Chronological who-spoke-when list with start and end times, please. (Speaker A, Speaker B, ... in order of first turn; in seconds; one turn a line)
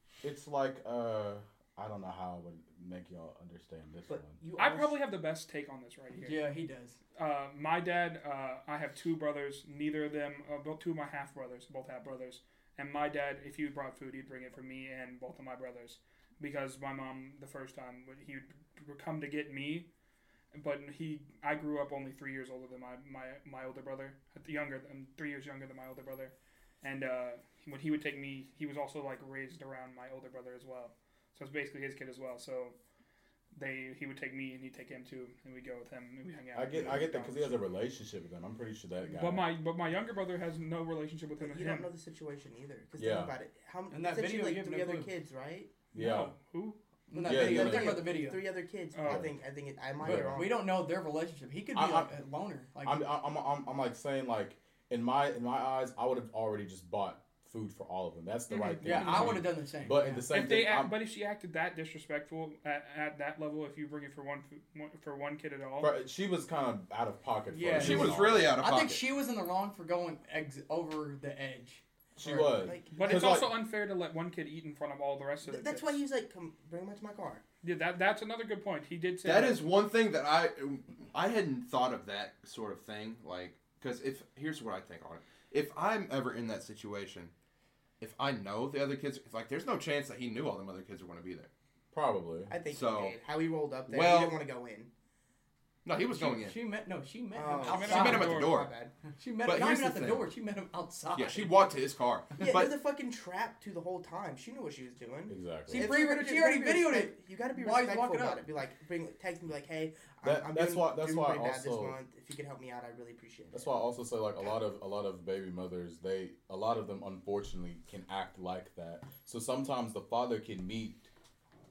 Speaker A: 0.2-4.4
Speaker B: 4.1-5.0
Speaker C: 4.6-6.4
Speaker D: 6.2-7.0
Speaker C: 7.2-19.9
Speaker C: 20.5-32.8
Speaker C: 33.5-37.6
Speaker A: 36.5-39.5
Speaker C: 39.1-41.9
Speaker B: 41.4-45.8
Speaker A: 43.0-43.3
Speaker D: 43.9-45.1
Speaker A: 45.9-46.3
Speaker C: 45.9-46.8
Speaker D: 47.1-48.5
Speaker B: 47.1-50.6
Speaker A: 47.2-48.0
Speaker C: 48.9-49.3
Speaker A: 49.0-49.4
Speaker A: 50.0-50.4
Speaker D: 50.0-53.0
Speaker A: 51.7-52.1
Speaker A: 52.8-61.0
Speaker C: 58.5-59.4
Speaker D: 58.7-60.2
Speaker C: 60.3-65.9
Speaker A: 65.8-68.5
Speaker D: 67.5-72.7
Speaker E: 67.7-69.0
Speaker A: 72.2-73.5
Speaker B: 72.5-73.4
Speaker C: 72.9-76.0
Speaker B: 75.4-77.4
Speaker C: 77.6-79.7
Speaker E: 79.2-87.3
Speaker E: 88.0-91.5
Speaker A: 91.9-92.5
Speaker B: 92.5-94.9
Speaker E: 92.7-93.2
Speaker E: 93.9-94.4
Speaker E: 95.8-96.6
Speaker D: 96.1-98.4
Speaker B: 97.3-98.9
Speaker C: 97.7-98.5
Speaker E: 97.8-98.7
Speaker D: 99.1-101.6
Speaker E: 99.4-100.3
Speaker E: 101.1-102.7
Speaker B: 102.4-113.7
Speaker A: 105.3-105.9
Speaker D: 105.7-108.4
Speaker A: 110.2-112.0
Speaker A: 113.5-121.1